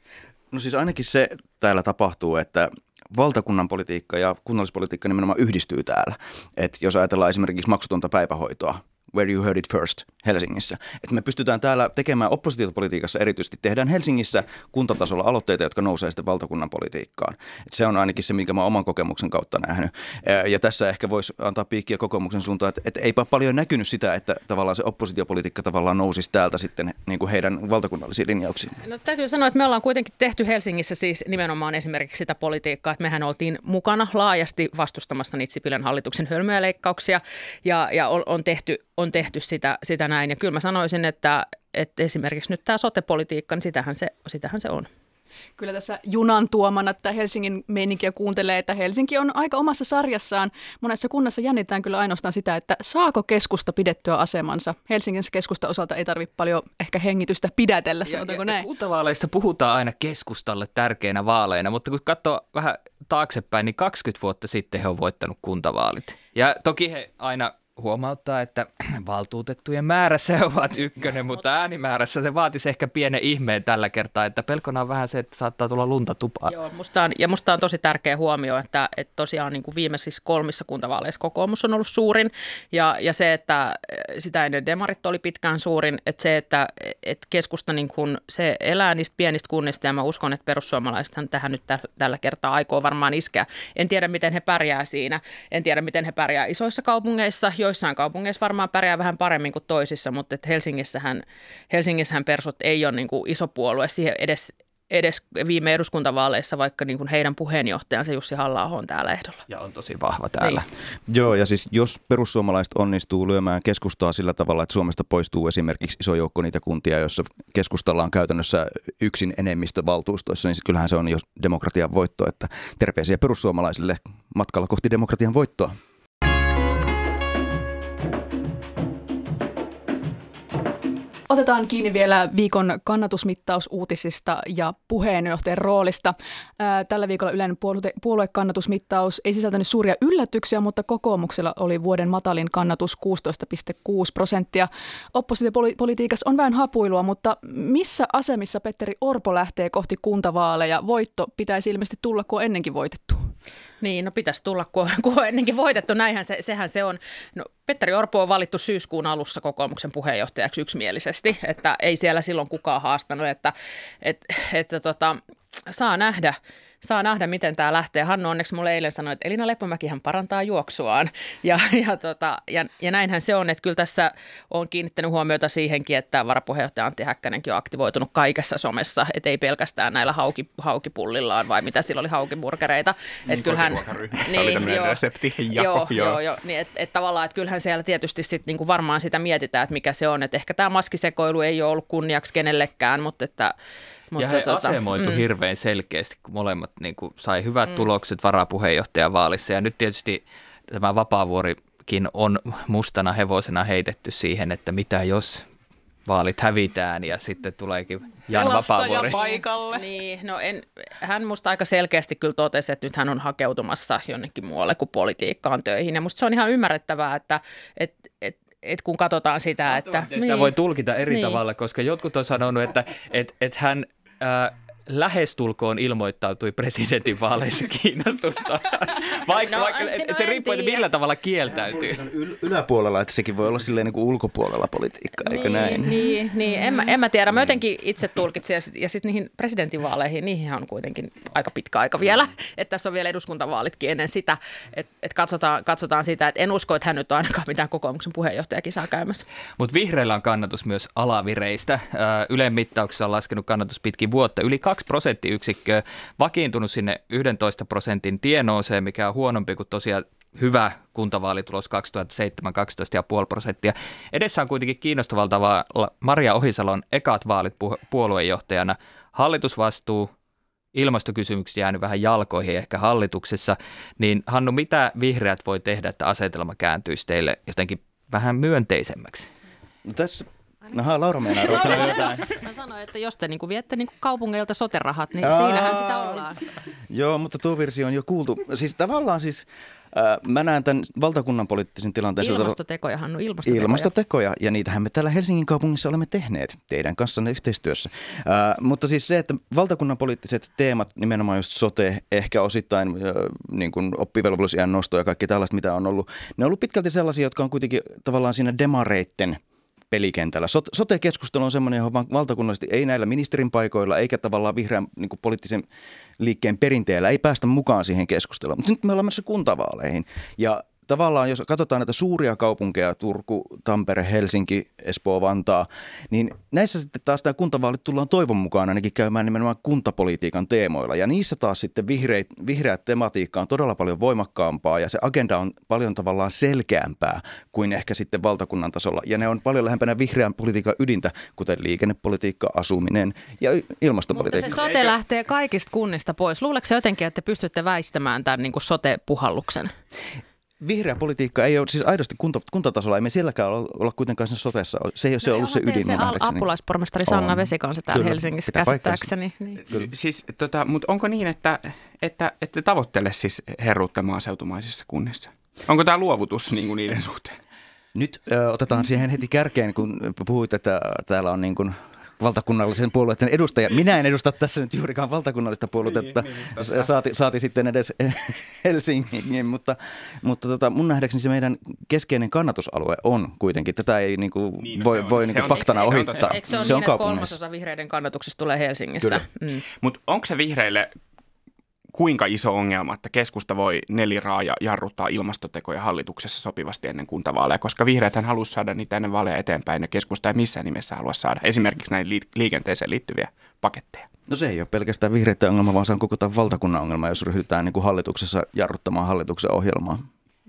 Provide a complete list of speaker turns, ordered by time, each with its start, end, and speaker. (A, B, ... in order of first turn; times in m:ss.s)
0:00.5-0:28.8 A
0:28.8-0:44.9 B
0:45.6-0:58.7 C
0:58.0-1:16.5 D
1:16.5-1:49.4 B
1:49.5-1:50.6 D
1:51.1-2:05.7 A
2:11.3-2:33.3 C
2:33.8-3:05.0 B
3:03.2-3:06.2 E
3:05.5-3:13.5 B
3:14.1-3:15.2 B
3:14.2-3:25.4 D
3:26.1-3:29.2 D
3:28.3-3:29.8 C
3:29.1-3:40.5 B
3:39.7-3:52.0 D
3:41.1-3:41.4 B
3:49.3-3:50.8 B
3:51.4-3:56.0 A
3:55.2-4:09.2 B
4:09.6-4:30.1 D
4:30.7-4:39.3 D
4:39.8-4:42.2 A
4:41.4-4:46.4 B
4:45.2-4:46.3 A
4:46.9-4:52.6 A
4:52.2-4:53.9 B
4:53.4-5:09.4 A
5:09.9-5:15.6 A
5:16.2-5:44.6 A
5:44.1-5:49.7 B
5:44.5-5:44.9 E
5:50.6-5:56.5 A
5:55.2-5:59.6 B
5:57.0-5:59.1 A
5:59.6-6:07.4 E
6:07.9-6:27.4 A
6:15.8-6:16.9 E
6:24.6-6:26.8 E
6:25.3-6:29.6 B
6:29.8-6:30.9 E
6:31.9-6:44.1 E
6:44.3-6:50.0 A